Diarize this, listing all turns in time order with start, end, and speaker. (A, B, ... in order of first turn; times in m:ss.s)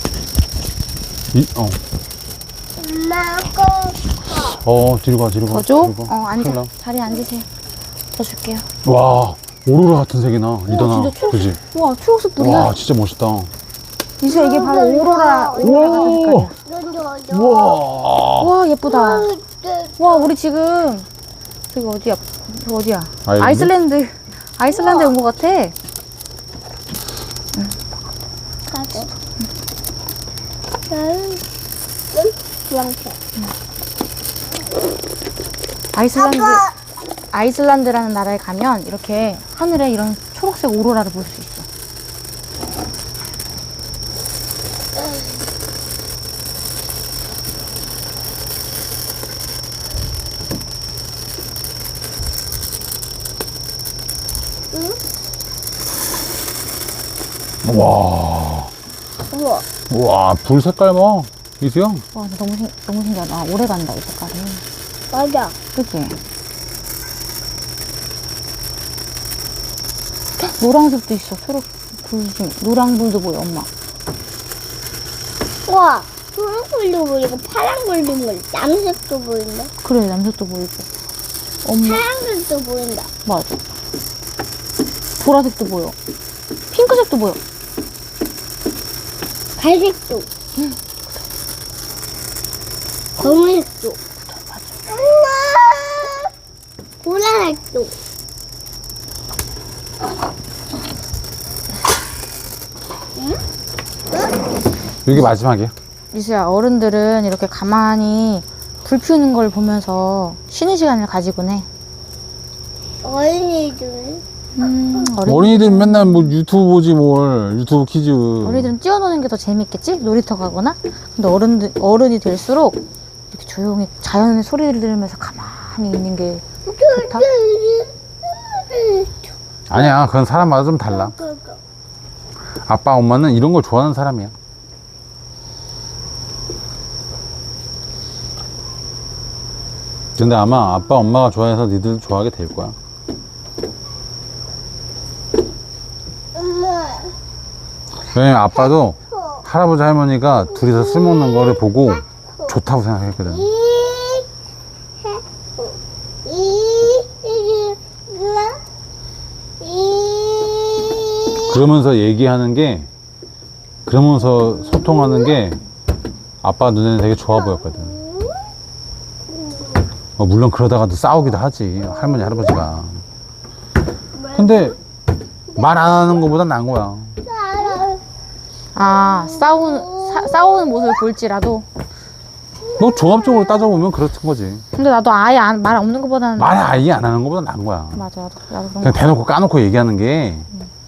0:01.3-0:01.8 A
0:02.8-0:04.6 B
0:04.5-0:06.7 A
0:05.5-0:07.5 C
0:08.1-0:08.7 C
0:08.8-0:11.6 A
0:10.7-0:12.7 C
0:12.4-0:13.5 A
0:14.2-0:16.5 C
0:14.2-0:17.8 B
0:15.6-0:16.5 A
0:17.3-0:18.5 A
0:18.4-0:19.3 C
0:18.8-0:20.3 B
0:20.0-0:21.1 C
0:21.7-0:25.7 C
0:23.2-0:23.7 A
0:24.7-0:25.1 B
0:28.7-0:29.1 B
0:30.9-0:31.4 B
0:32.1-0:33.2 B
0:35.9-0:36.6 C
0:36.2-0:36.7 B
0:37.3-0:41.7 C
0:54.7-0:55.0 B
0:57.6-0:58.7 A
0:59.3-0:59.6 B
0:59.9-1:02.0 A
1:02.1-1:04.6 C
1:05.1-1:05.5 B
1:05.7-1:06.2 C
1:10.4-1:13.7 C
1:15.6-1:19.7 B
1:19.8-1:20.8 C
1:21.6-1:22.0 C
1:21.8-1:23.1 B
1:23.2-1:23.6 C
1:25.2-1:25.9 C
1:26.7-1:27.4 C
1:29.6-1:30.3 B
1:33.2-1:34.0 B
1:34.3-1:34.6 C
1:34.9-1:36.3 B
1:37.0-1:37.9 B
1:43.2-1:43.4 B
1:45.0-1:45.7 A
1:46.1-1:51.6 C
1:53.0-1:54.2 B
1:54.6-1:56.3 C
1:55.2-1:58.7 A
1:58.4-2:02.8 C
2:03.3-2:07.2 C
2:06.6-2:09.8 B
2:09.7-2:11.1 A
2:10.9-2:11.6 B
2:12.6-2:14.3 A
2:20.2-2:22.8 A
2:26.3-2:27.1 B
2:28.1-2:33.5 A
2:29.1-2:29.4 B
2:30.4-2:32.6 B
2:33.3-2:34.3 B
2:35.0-2:38.6 B
2:39.6-2:41.6 B
2:41.4-2:42.9 A
2:43.8-2:45.6 A
2:46.4-2:48.0 A
2:47.3-2:48.3 B
2:50.2-2:53.0 A
2:54.2-2:54.7 B
2:54.3-2:54.8 A
2:55.5-2:57.2 A
2:57.2-2:58.0 B
2:58.7-3:01.6 C
2:59.1-3:00.7 B
3:02.8-3:04.6 A
3:04.7-3:06.8 C
3:06.4-3:08.0 A
3:08.0-3:09.0 C
3:08.8-3:10.5 A